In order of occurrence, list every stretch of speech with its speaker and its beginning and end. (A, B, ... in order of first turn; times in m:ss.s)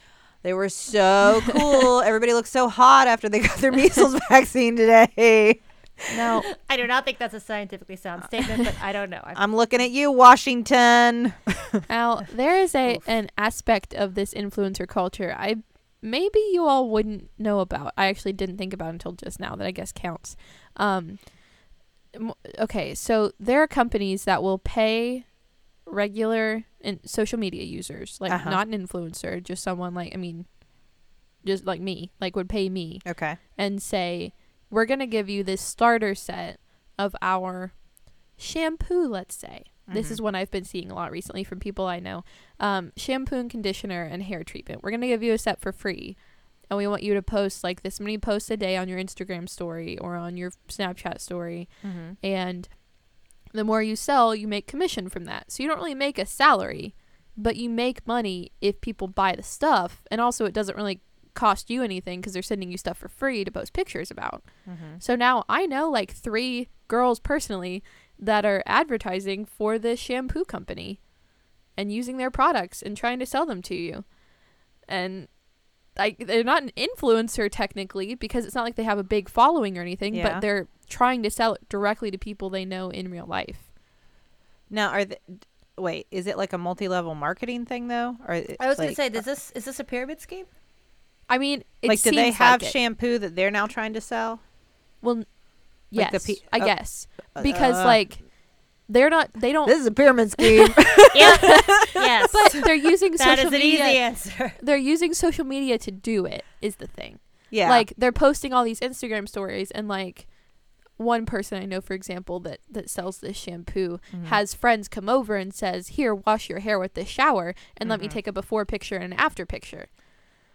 0:00.4-0:05.6 A
0:06.1-0:06.5 B
0:06.5-0:09.4 C
0:09.3-0:11.7 A
0:11.9-0:52.9 B
0:28.3-0:28.6 A
0:33.0-0:33.4 A
0:39.9-0:40.2 A
0:51.8-0:52.2 A
0:53.4-1:11.2 B
1:04.6-1:05.0 A
1:11.7-1:23.7 B
1:20.1-1:20.4 A
1:24.7-1:29.2 A
1:28.6-1:30.5 C
1:31.3-1:32.8 B
1:31.8-1:34.4 A
1:35.0-1:40.7 B
1:35.9-1:38.1 A
1:39.6-1:42.3 A
1:41.1-1:44.6 C
1:42.3-2:00.2 B
1:47.5-1:47.9 A
1:54.1-1:54.4 A
1:57.8-1:58.2 A